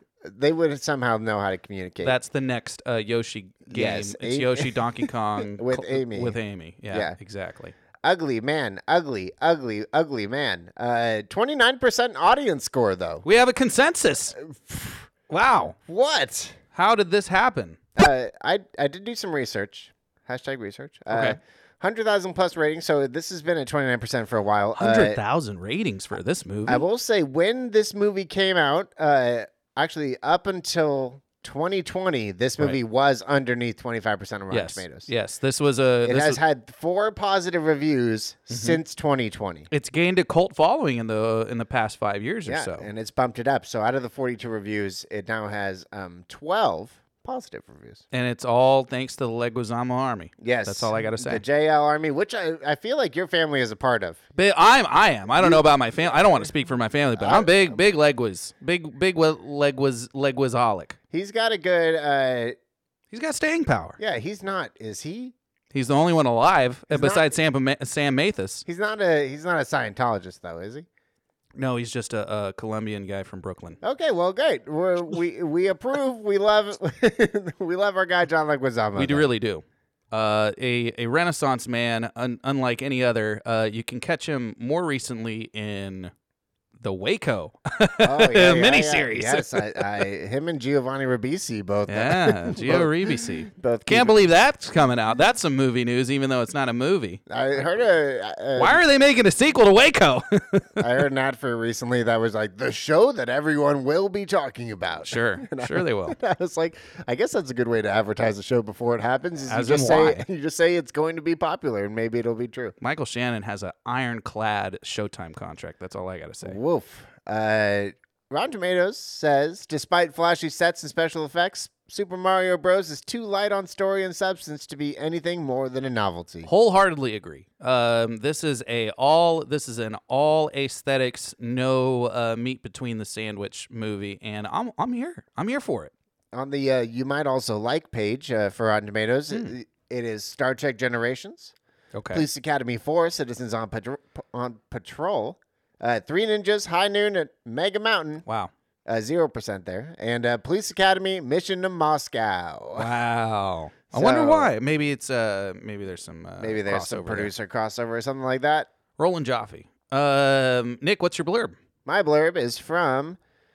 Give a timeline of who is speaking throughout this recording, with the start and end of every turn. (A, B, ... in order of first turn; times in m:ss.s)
0:00.2-0:02.2 A
0:02.0-0:07.8 B
0:03.7-0:06.4 A
0:06.9-0:07.2 A
0:08.0-0:13.2 A
0:13.2-0:14.4 B
0:14.4-0:15.1 A
0:15.3-0:15.8 B
0:15.9-0:16.6 A
0:16.7-0:17.8 B
0:18.0-0:25.2 A
0:21.1-0:21.4 B
0:24.8-0:26.8 B
0:26.7-0:35.1 A
0:34.5-0:36.4 B
0:36.0-0:39.7 A
0:38.5-0:38.8 B
0:39.7-0:42.9 B
0:42.5-0:48.0 A
0:48.1-0:51.4 B
0:50.4-0:54.2 A
0:54.4-1:01.0 B
0:55.4-0:55.6 A
0:57.2-0:57.8 A
1:01.1-1:02.6 A
1:03.1-1:04.0 B
1:04.0-1:05.3 A
1:05.7-1:08.6 B
1:06.9-1:07.3 A
1:08.7-1:10.9 A
1:11.6-1:13.8 B
1:13.8-1:19.3 A
1:19.0-1:26.1 B
1:26.8-1:29.9 B
1:28.0-1:34.2 A
1:31.9-1:37.2 B
1:37.3-1:38.8 A
1:38.6-1:40.9 B
1:40.8-1:52.8 A
1:45.1-1:46.2 B
1:49.5-1:50.3 B
1:52.8-1:56.6 B
1:56.4-2:06.5 A
2:06.4-2:15.9 B
2:16.3-2:21.5 A
2:21.9-2:22.3 B
2:22.1-2:28.2 A
2:28.2-2:28.5 B
2:28.9-2:32.9 A
2:32.8-2:37.3 B
2:33.9-2:34.5 A
2:36.4-2:38.7 A
2:39.0-2:41.6 B
2:41.9-2:43.2 A